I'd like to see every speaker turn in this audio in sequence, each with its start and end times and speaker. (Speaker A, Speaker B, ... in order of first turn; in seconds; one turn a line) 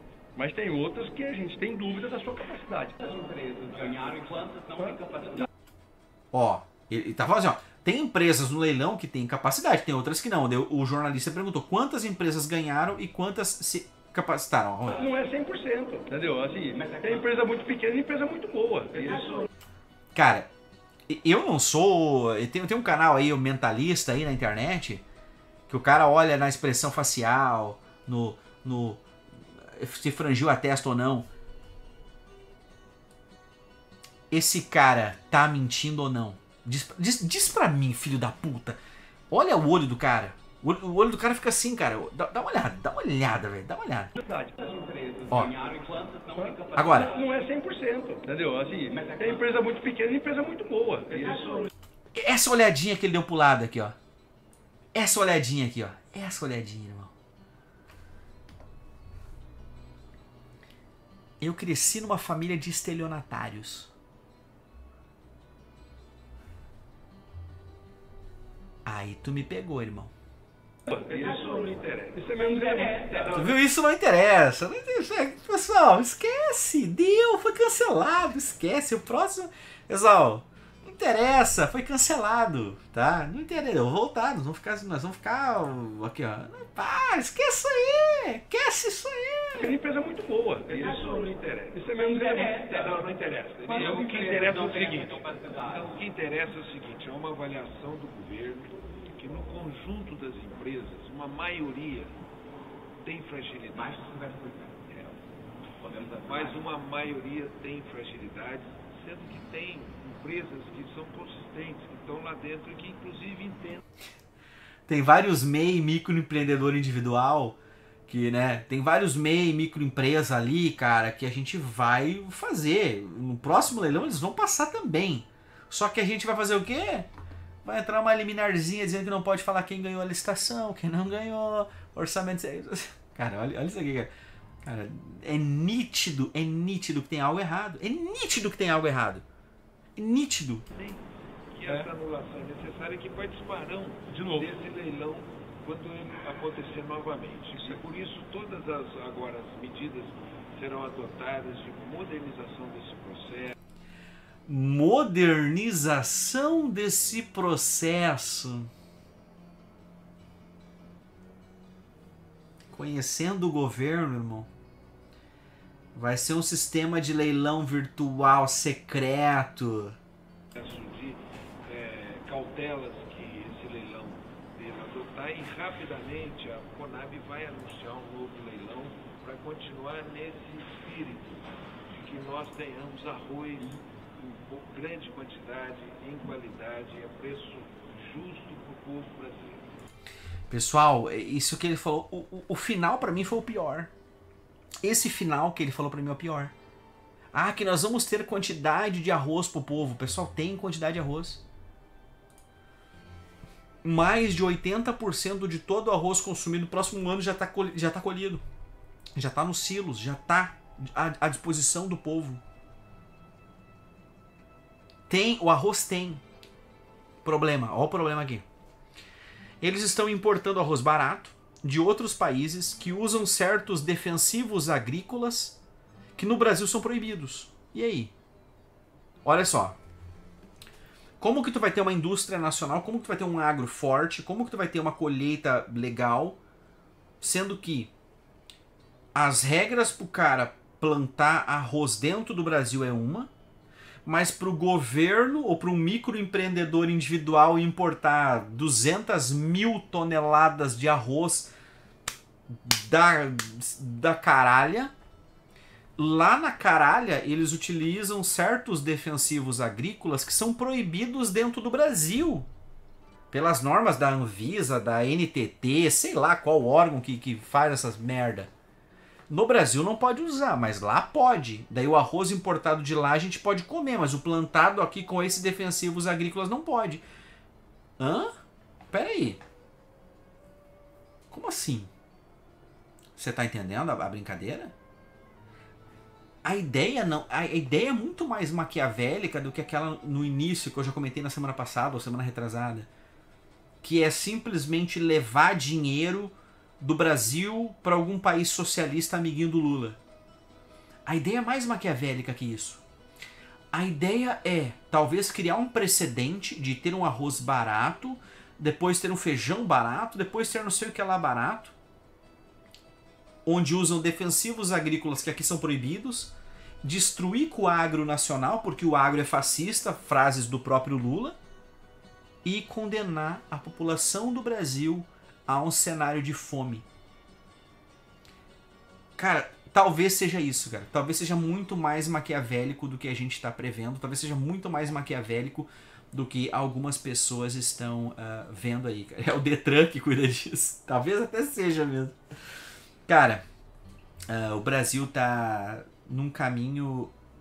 Speaker A: 0.3-3.0
Speaker A: 4.7-5.0
Speaker B: 6.3-15.0
Speaker A: 14.9-19.4
Speaker B: 20.1-20.5
Speaker B: 21.1-25.0
Speaker B: 25.7-29.0
Speaker B: 29.6-31.2
Speaker B: 34.3-38.8
Speaker B: 39.3-44.1
Speaker A: 44.2-44.5
Speaker B: 45.3-45.5
Speaker A: 46.3-51.7
Speaker B: 46.8-47.1
Speaker B: 52.1-54.0
Speaker B: 54.9-57.1
Speaker B: 61.4-63.9
Speaker B: 68.8-70.1
Speaker C: 70.9-73.5
Speaker A: 70.9-71.2
Speaker A: 72.2-73.1
Speaker B: 73.3-89.8
Speaker A: 89.6-90.9
Speaker C: 90.7-102.2
Speaker A: 91.7-92.6
Speaker C: 103.0-105.1
Speaker C: 105.8-113.8
Speaker B: 114.9-117.6
Speaker B: 118.1-127.1
Speaker B: 127.6-134.1
Speaker B: 134.6-139.2
Speaker B: 139.9-140.6
Speaker C: 140.7-153.5
Speaker A: 144.1-144.5
Speaker B: 154.4-158.7
Speaker B: 162.7-164.5
Speaker B: 165.9-169.9
Speaker C: 170.5-189.7
Speaker B: 190.5-193.9
Speaker B: 194.8-196.5
Speaker B: 197.3-201.4
Speaker B: 203.8-208.4
Speaker B: 209.2-212.4
Speaker B: 215.1-216.2
Speaker B: 217.2-218.4
Speaker B: 219.6-225.6
Speaker B: 226.2-228.1
Speaker B: 229.2-229.8
Speaker B: 231.2-236.4
Speaker B: 237.2-237.9
Speaker B: 239.1-243.3
Speaker B: 244.0-251.5
Speaker B: 252.5-254.9
Speaker B: 256.0-262.5
Speaker B: 263.3-268.5
Speaker B: 269.3-277.0
Speaker B: 278.0-278.3
Speaker B: 278.9-279.4
Speaker B: 281.3-281.9
Speaker B: 283.1-284.7
Speaker B: 286.4-292.9
Speaker B: 293.8-300.0
Speaker B: 301.1-302.8
Speaker B: 303.7-311.8
Speaker B: 313.4-321.4
Speaker B: 322.4-326.9
Speaker B: 329.2-342.2
Speaker B: 343.1-343.4
Speaker B: 344.3-347.1